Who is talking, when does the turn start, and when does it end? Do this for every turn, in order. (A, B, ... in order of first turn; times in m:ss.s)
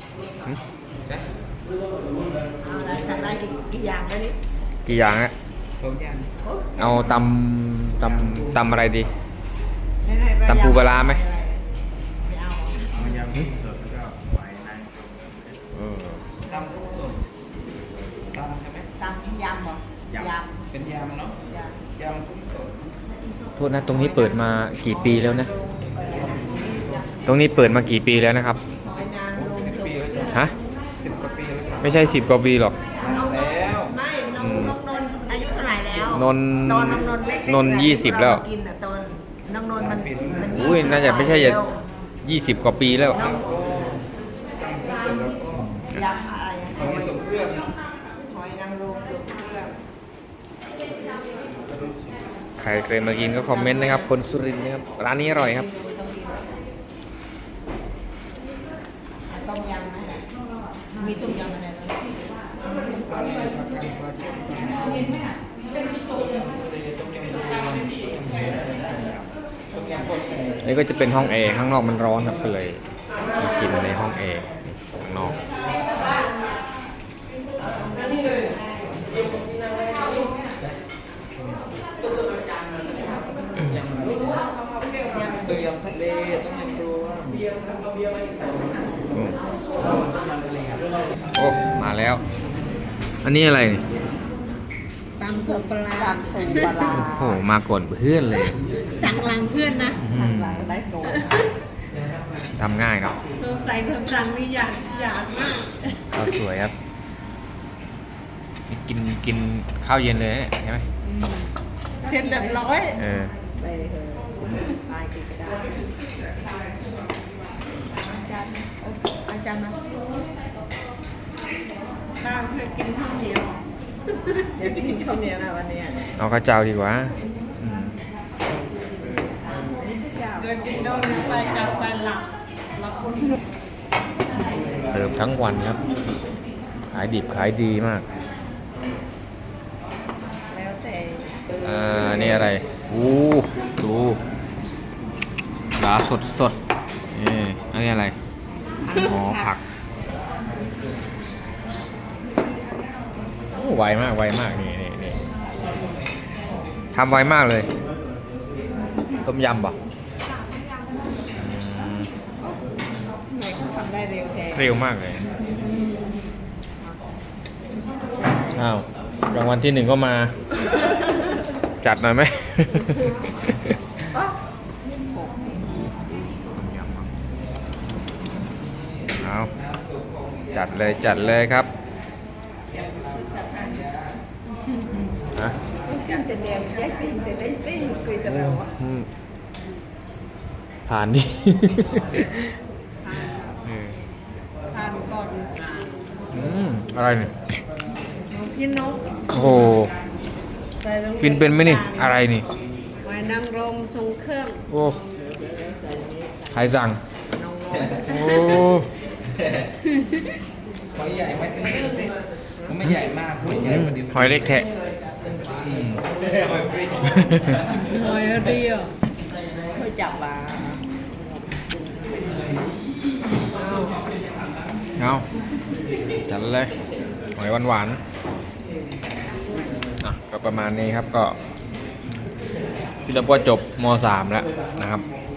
0:02.6-0:04.4 A
0:04.8-0:05.3 B
0:05.8-0:06.4 C
0:06.4-0:06.9 A
0:06.8-0:09.1 B
0:08.0-0:08.7 C
0:10.0-0:13.2 A
0:10.4-0:11.2 B
0:12.9-0:15.6 C
0:15.7-0:16.2 B
0:16.4-0:17.3 C
0:18.1-0:18.9 C
0:19.0-0:20.6 A
0:20.1-0:21.4 C
0:21.5-0:21.8 A
0:22.0-0:22.9 C
0:23.6-0:25.5 B
0:23.9-0:27.3 A
0:26.0-0:27.0 C
0:27.2-0:28.6 B
0:28.8-0:30.5 A
0:29.3-0:32.0 C
0:31.8-0:32.8 B
0:33.0-0:34.0 C
0:33.0-0:41.8 A
0:34.4-0:34.8 B
0:36.1-0:38.4 B
0:39.8-0:40.4 C
0:40.5-0:41.6 B
0:42.2-0:43.2 B
0:43.1-0:44.0 C
0:43.2-0:43.5 A
0:44.5-0:45.7 C
0:45.6-0:46.1 B
0:45.9-0:47.2 A
0:46.7-0:47.7 C
0:48.0-0:49.7 A
0:52.6-0:55.7 B
0:53.6-0:54.0 A
0:55.6-0:56.6 A
0:59.3-1:00.3 A
1:01.0-1:02.1 A
1:03.0-1:05.4 C
1:06.3-1:10.6 C
1:10.6-1:12.8 B
1:13.3-1:15.4 B
1:17.6-1:19.2 A
1:23.6-1:24.4 C
1:25.4-1:27.5 C
1:30.0-1:30.9 C
1:31.4-1:32.2 B
1:33.2-1:33.8 B
1:35.2-1:37.1 D
1:35.2-1:37.4 A
1:36.8-1:38.6 B
1:38.9-1:40.0 D
1:38.9-1:41.5 A
1:40.0-1:40.7 B
1:42.6-1:43.2 B
1:43.3-1:44.0 A
1:43.4-1:45.8 D
1:44.8-1:45.7 A
1:46.1-1:46.7 B
1:48.7-1:50.9 B
1:51.1-1:51.4 D
1:52.0-1:52.9 D
1:52.0-1:53.0 A
1:53.0-1:53.3 B
1:53.5-1:55.7 A
1:58.0-1:59.8 A
2:02.2-2:03.6 D
2:02.4-2:03.1 A
2:04.6-2:06.1 A
2:06.2-2:08.0 B
2:09.5-2:10.6 A
2:10.4-2:13.4 D
2:14.8-2:15.8 B
2:16.9-2:18.0 B
2:20.5-2:21.4 A
2:21.6-2:24.2 B
2:25.7-2:26.6 B
2:27.1-2:28.1 B
2:28.8-2:29.5 A
2:28.9-2:29.6 B
2:33.5-2:35.2 B
2:36.9-2:37.7 B
2:39.2-2:39.8 B
2:41.3-2:42.1 B
2:42.4-2:44.7 A
2:44.5-2:45.2 B
2:48.5-2:50.3 B
2:51.8-2:53.7 B
2:55.1-2:55.8 A
2:56.6-2:57.1 B
2:59.2-2:59.5 B
2:59.6-3:01.2 C
3:00.5-3:01.7 B
3:02.7-3:04.2 C
3:05.8-3:08.7 A
3:08.2-3:09.1 B
3:10.9-3:12.5 B
3:13.6-3:14.0 B
3:14.7-3:15.9 D
3:16.3-3:17.3 B
3:18.3-3:19.0 D
3:19.3-3:19.9 B
3:20.8-3:22.2 A
3:21.2-3:22.5 B
3:23.0-3:26.7 A
3:24.7-3:25.0 B
3:26.5-3:27.0 B
3:27.3-3:28.7 A
3:28.0-3:28.9 B
3:29.9-3:30.2 A
3:30.9-3:34.6 C
3:33.6-3:34.7 B
3:35.7-3:36.0 B
3:36.0-3:37.3 C
3:37.1-3:37.6 B
3:37.8-3:38.9 A
3:39.7-3:41.5 A
3:43.5-3:44.0 A
3:45.0-3:45.2 B
3:46.3-3:46.7 B
3:47.4-3:48.0 B
3:50.0-3:51.4 B
3:53.0-3:55.0 B